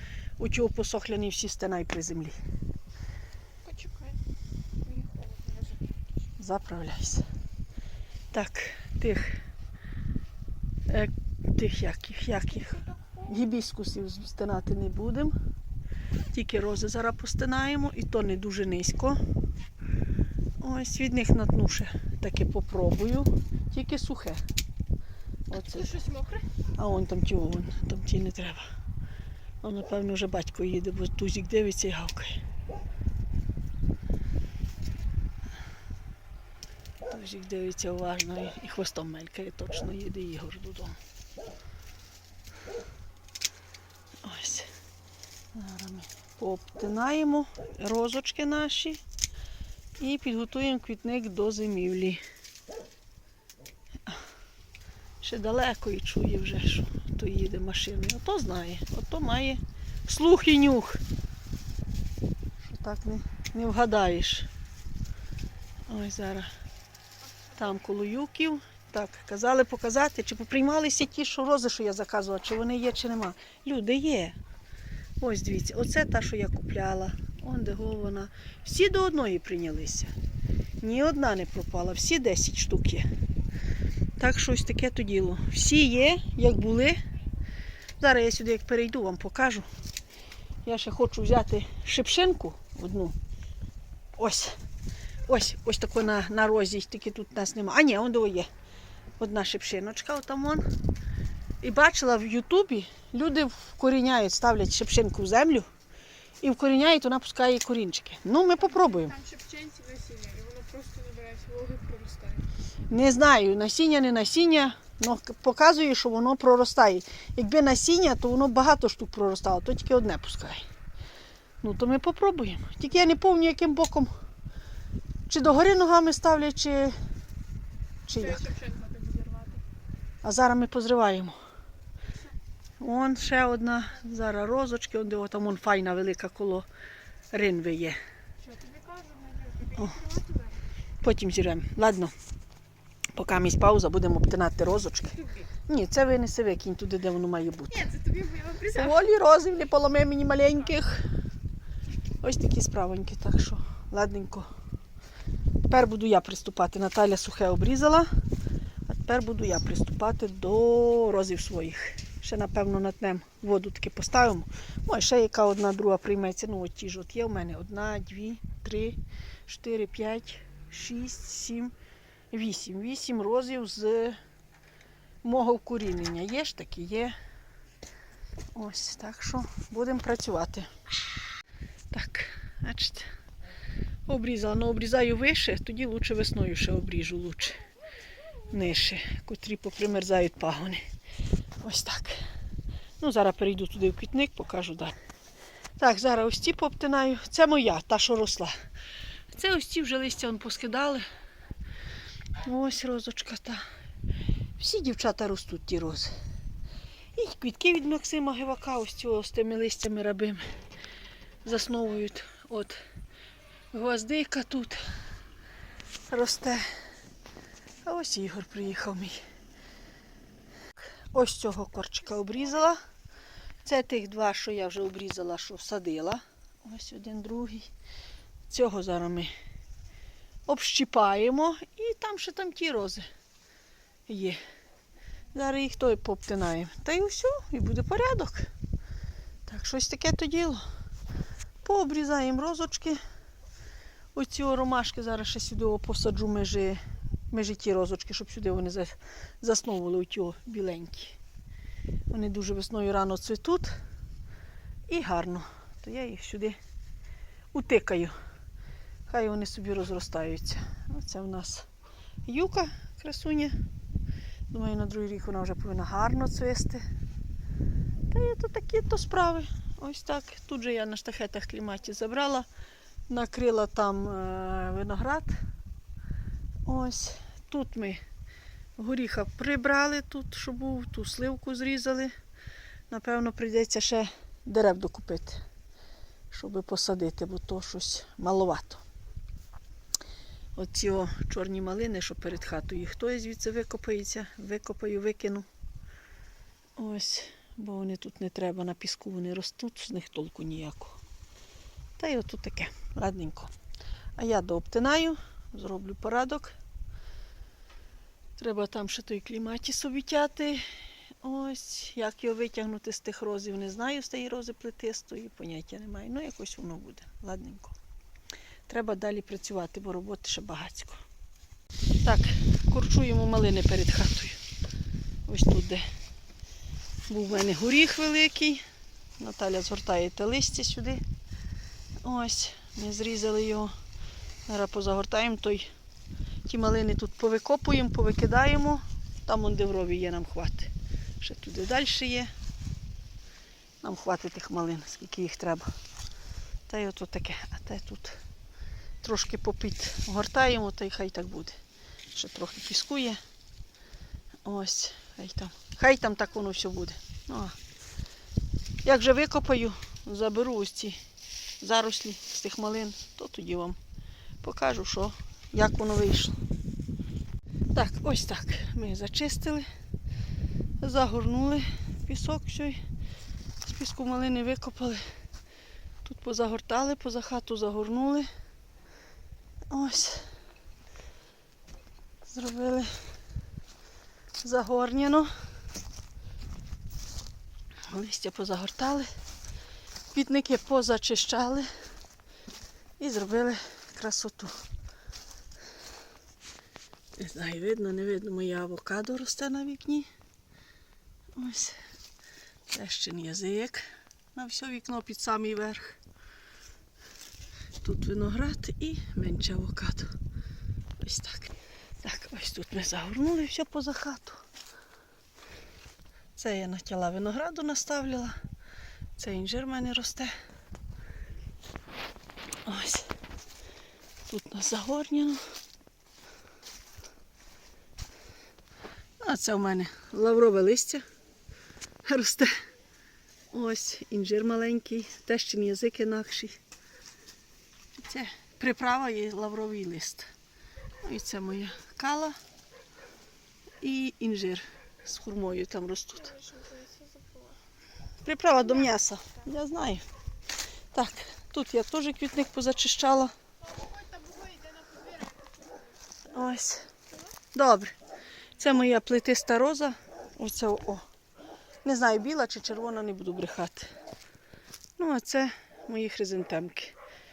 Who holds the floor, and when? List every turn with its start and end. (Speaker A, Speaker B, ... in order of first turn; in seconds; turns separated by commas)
Speaker A: 0.4-2.4, Speaker B: 3.6-4.2, Speaker B: 4.8-5.8, Speaker A: 6.4-7.2, Speaker A: 8.3-9.4, Speaker A: 10.9-15.3, Speaker A: 16.3-19.2, Speaker A: 20.6-24.4, Speaker A: 25.5-26.0, Speaker B: 25.6-26.4, Speaker A: 26.8-28.6, Speaker A: 29.6-32.4, Speaker A: 37.1-41.0, Speaker A: 44.2-44.7, Speaker A: 45.5-49.0, Speaker A: 50.0-52.2, Speaker A: 55.2-61.0, Speaker A: 62.6-64.5, Speaker A: 65.9-66.5, Speaker A: 67.5-74.4, Speaker A: 75.2-80.1, Speaker A: 80.8-83.0, Speaker A: 84.2-87.0, Speaker A: 88.0-89.7, Speaker A: 90.6-93.2, Speaker A: 94.2-94.5, Speaker A: 95.3-98.5, Speaker A: 99.2-100.7, Speaker A: 101.6-105.7, Speaker A: 106.4-109.2, Speaker B: 108.8-112.5, Speaker A: 112.9-120.7, Speaker A: 121.6-124.1, Speaker A: 125.3-127.0, Speaker A: 128.1-128.5, Speaker B: 128.2-129.6, Speaker A: 130.2-131.3, Speaker A: 132.8-136.7, Speaker A: 137.3-138.0, Speaker B: 138.4-140.6, Speaker A: 141.0-142.1, Speaker A: 143.1-147.9, Speaker B: 147.7-148.9, Speaker A: 148.7-151.0, Speaker A: 152.2-154.5, Speaker A: 155.7-158.1, Speaker A: 158.9-171.7, Speaker A: 172.3-174.2, Speaker A: 175.2-177.1, Speaker A: 178.5-180.7, Speaker A: 181.9-183.1, Speaker A: 184.1-187.6, Speaker A: 188.5-190.8, Speaker A: 191.6-192.2, Speaker A: 193.0-194.9, Speaker A: 195.8-198.5, Speaker A: 199.3-201.1, Speaker A: 202.4-203.6, Speaker A: 204.6-206.1, Speaker A: 207.1-210.4, Speaker A: 211.4-212.8, Speaker A: 213.7-214.8, Speaker A: 216.1-216.6, Speaker A: 217.8-219.2, Speaker A: 221.1-222.8, Speaker A: 223.6-227.7, Speaker A: 228.5-229.3, Speaker A: 230.5-233.1, Speaker A: 234.1-234.4, Speaker A: 235.3-238.5, Speaker A: 239.5-240.6, Speaker A: 241.6-243.0, Speaker A: 244.1-246.8, Speaker A: 247.3-251.2, Speaker A: 252.1-253.8, Speaker A: 254.9-256.6, Speaker A: 257.5-258.1, Speaker A: 259.1-261.6, Speaker A: 262.3-263.5, Speaker A: 264.5-266.8, Speaker A: 268.1-272.5, Speaker A: 273.1-275.4, Speaker A: 276.6-278.0, Speaker A: 278.8-282.1, Speaker A: 282.9-285.4, Speaker A: 286.3-288.8, Speaker A: 290.6-295.4, Speaker A: 296.8-301.0, Speaker A: 302.0-303.5, Speaker A: 304.2-306.6, Speaker A: 308.4-310.6, Speaker A: 311.2-317.7, Speaker A: 318.7-321.0, Speaker A: 322.0-324.4, Speaker A: 325.3-325.9, Speaker A: 327.1-328.6, Speaker A: 329.2-331.0, Speaker A: 332.0-333.7, Speaker A: 334.5-335.7, Speaker A: 336.4-342.3, Speaker A: 343.8-345.7, Speaker A: 346.7-348.2, Speaker A: 349.0-351.6, Speaker A: 352.1-353.2, Speaker A: 354.4-357.6, Speaker A: 358.8-361.0, Speaker A: 361.6-363.8, Speaker A: 364.4-366.4, Speaker A: 367.7-369.7, Speaker A: 370.8-372.8, Speaker A: 373.6-375.1, Speaker A: 376.0-378.3, Speaker A: 379.7-380.3, Speaker A: 382.3-382.9, Speaker A: 384.4-385.3, Speaker A: 387.9-389.1, Speaker A: 390.1-391.7, Speaker A: 393.0-394.5, Speaker A: 397.2-400.1, Speaker A: 401.4-401.8, Speaker A: 402.7-405.9, Speaker A: 407.8-410.1, Speaker A: 411.0-414.4, Speaker A: 416.4-418.4, Speaker A: 419.2-420.3, Speaker A: 422.6-423.1, Speaker A: 424.3-425.4, Speaker A: 429.2-431.0, Speaker A: 432.0-432.5, Speaker A: 433.5-436.6, Speaker A: 438.0-440.3, Speaker A: 441.0-442.4, Speaker A: 443.8-446.4, Speaker B: 446.3-447.6, Speaker A: 448.2-450.0, Speaker A: 450.9-453.3, Speaker B: 453.7-455.7, Speaker A: 456.3-456.9, Speaker A: 457.5-457.9, Speaker A: 458.6-461.1, Speaker A: 461.8-463.9, Speaker A: 465.0-466.9